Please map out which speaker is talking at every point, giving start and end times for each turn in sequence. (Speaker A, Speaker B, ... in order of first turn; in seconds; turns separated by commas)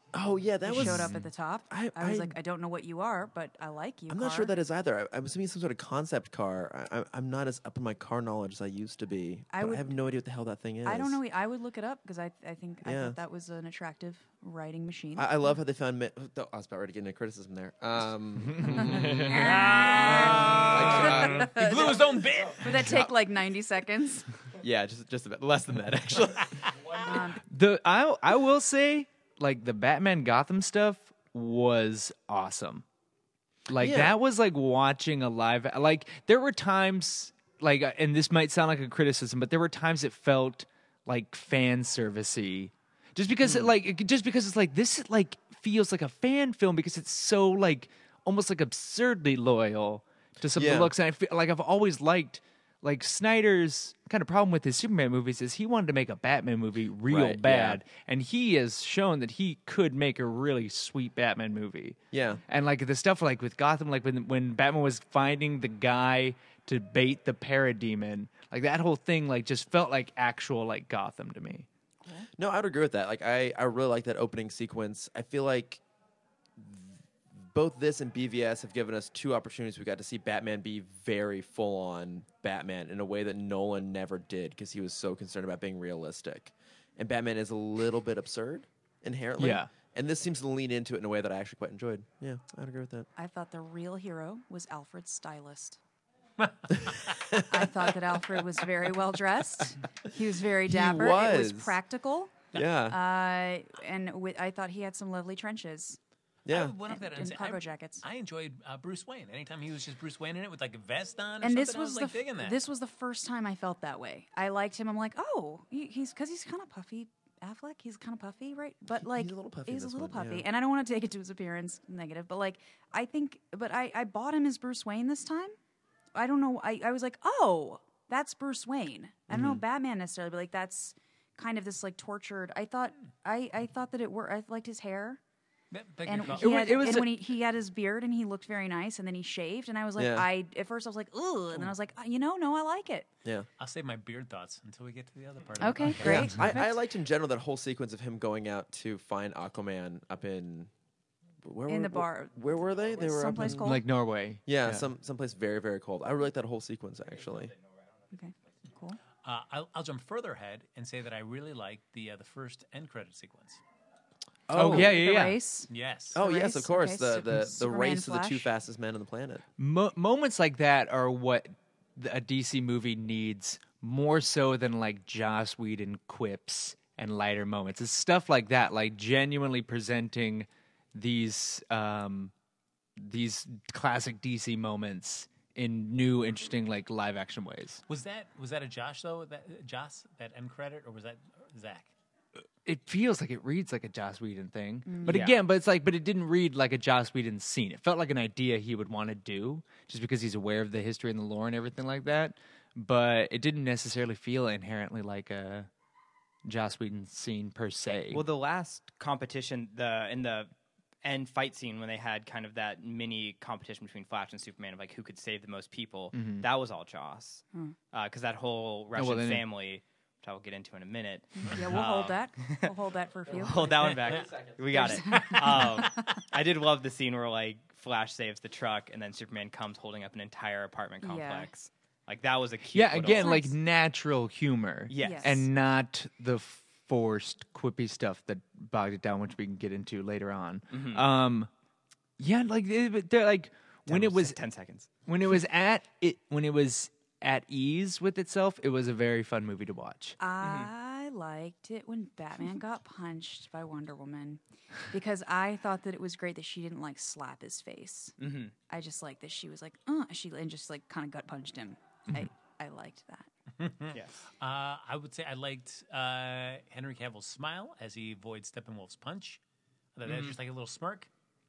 Speaker A: 0.1-2.4, Speaker B: 0.6-4.5, Speaker C: 0.8-1.2, Speaker A: 4.1-11.2, Speaker B: 9.5-9.9, Speaker B: 10.8-15.3, Speaker A: 12.8-13.2, Speaker A: 15.2-21.9, Speaker C: 18.5-19.5, Speaker B: 19.1-24.3, Speaker D: 19.5-22.9, Speaker A: 22.7-23.1, Speaker A: 24.6-27.2, Speaker B: 27.0-27.4, Speaker C: 27.5-32.9, Speaker C: 33.7-71.7, Speaker A: 33.8-34.1, Speaker A: 43.4-43.7, Speaker A: 50.6-50.9, Speaker A: 57.1-57.8, Speaker A: 62.1-62.4, Speaker A: 72.3-75.8, Speaker A: 76.6-93.1, Speaker C: 89.4-89.7, Speaker B: 93.2-95.8, Speaker A: 96.8-97.6, Speaker B: 97.5-102.4, Speaker A: 100.7-101.8, Speaker A: 102.5-103.0, Speaker B: 102.9-106.0, Speaker A: 106.5-106.7, Speaker D: 106.5-112.6, Speaker B: 106.9-108.0, Speaker B: 111.4-125.6, Speaker A: 119.2-120.5, Speaker B: 126.2-135.2, Speaker A: 129.3-129.6, Speaker D: 135.7-137.0, Speaker B: 136.1-143.1, Speaker C: 136.4-137.2, Speaker A: 140.0-140.3, Speaker D: 143.6-146.2, Speaker B: 145.6-146.7, Speaker A: 146.0-150.7, Speaker A: 151.4-153.7, Speaker B: 151.7-153.8, Speaker C: 153.4-154.9, Speaker A: 154.5-157.6, Speaker B: 158.1-159.0, Speaker D: 159.2-163.6, Speaker A: 164.5-164.9, Speaker C: 164.5-165.4, Speaker B: 164.6-168.5, Speaker D: 165.7-166.2, Speaker A: 166.1-169.4, Speaker C: 169.6-182.3, Speaker C: 183.0-187.8, Speaker D: 187.9-191.9, Speaker C: 192.7-205.7, Speaker B: 194.9-195.2, Speaker E: 195.1-195.4, Speaker C: 206.4-208.2, Speaker E: 208.1-210.5, Speaker E: 211.0-221.6, Speaker C: 216.1-216.5, Speaker C: 218.9-219.5, Speaker B: 221.4-223.8, Speaker D: 221.7-222.2, Speaker E: 222.4-222.7, Speaker E: 223.3-233.4, Speaker D: 223.9-224.3, Speaker B: 224.7-226.1, Speaker B: 231.0-231.5, Speaker C: 232.7-241.5, Speaker B: 233.2-233.5, Speaker E: 234.9-235.4, Speaker B: 235.0-235.4, Speaker E: 240.7-241.1, Speaker C: 242.2-244.4, Speaker E: 243.9-244.9, Speaker C: 245.1-250.2, Speaker B: 250.2-258.1, Speaker E: 250.4-250.7, Speaker E: 258.2-258.5, Speaker B: 258.7-263.3, Speaker D: 263.6-269.4, Speaker E: 263.9-264.2, Speaker D: 270.0-271.1, Speaker E: 270.1-270.4